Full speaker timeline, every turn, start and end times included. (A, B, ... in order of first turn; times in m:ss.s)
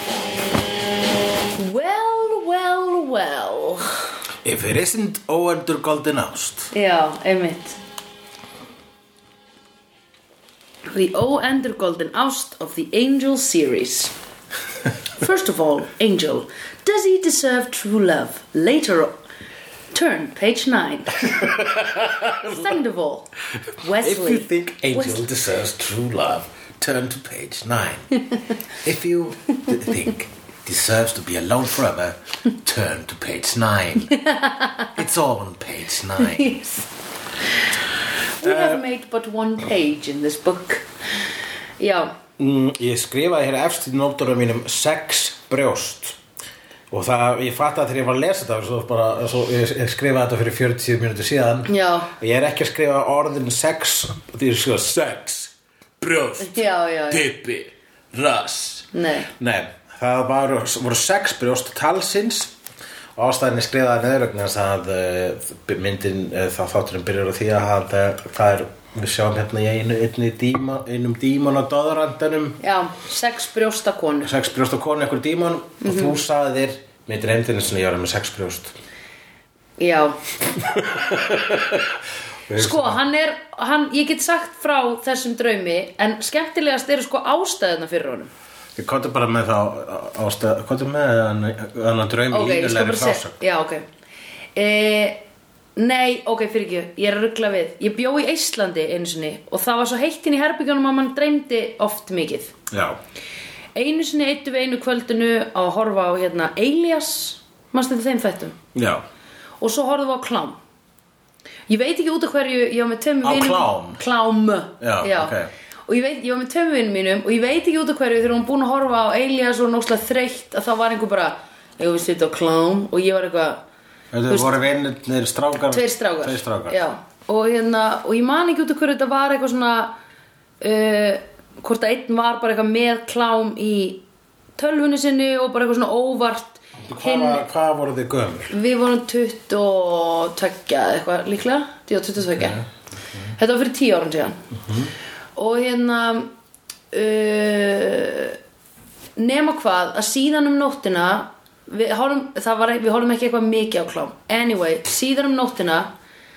0:01.6-0:04.0 A
0:04.4-0:06.7 B
0:06.7-0:07.8 A
0:10.9-0:14.1 A
0:15.2-0:19.1 A
0:19.9-0:21.4 A
0:21.2-0:22.8 B
0:22.4-0:25.2 A
0:24.0-0:28.1 B
0:28.8-0:34.2 B
0:34.2-0:34.9 A
0:35.0-0:36.6 B
0:36.2-0:36.9 A
0:38.4-0:40.9 A
0:38.4-0:38.8 B
0:41.8-0:42.1 A
0:42.4-0:46.2 B
0:46.9-1:02.5 B
0:51.7-0:52.1 A
0:56.4-0:57.3 A
0:58.9-0:59.3 A
1:03.2-1:12.6 B
1:12.6-1:14.3 A
1:14.2-1:18.7 B
1:15.8-1:16.2 A
1:19.8-1:20.2 A
1:20.6-1:23.0 B
1:22.6-1:28.3 A
1:28.8-1:33.4 B
1:32.3-1:33.9 A
1:34.6-1:35.2 A
1:35.8-1:42.5 A
1:42.7-1:43.0 B
1:43.8-1:48.6 A
1:48.8-1:49.0 B
1:49.6-1:50.6 A
1:51.7-1:55.4 A
1:53.2-1:54.0 B
1:54.8-1:55.5 B
1:55.9-2:03.6 A
2:04.1-2:06.8 B
2:05.7-2:09.9 A
2:10.6-2:14.0 A
2:14.6-2:17.4 A
2:16.9-2:18.5 B
2:18.5-2:22.6 A
2:22.2-2:23.3 B
2:23.4-2:24.4 A
2:24.7-2:24.9 B
2:25.4-2:26.3 A
2:26.9-2:28.4 A
2:29.2-2:35.9 A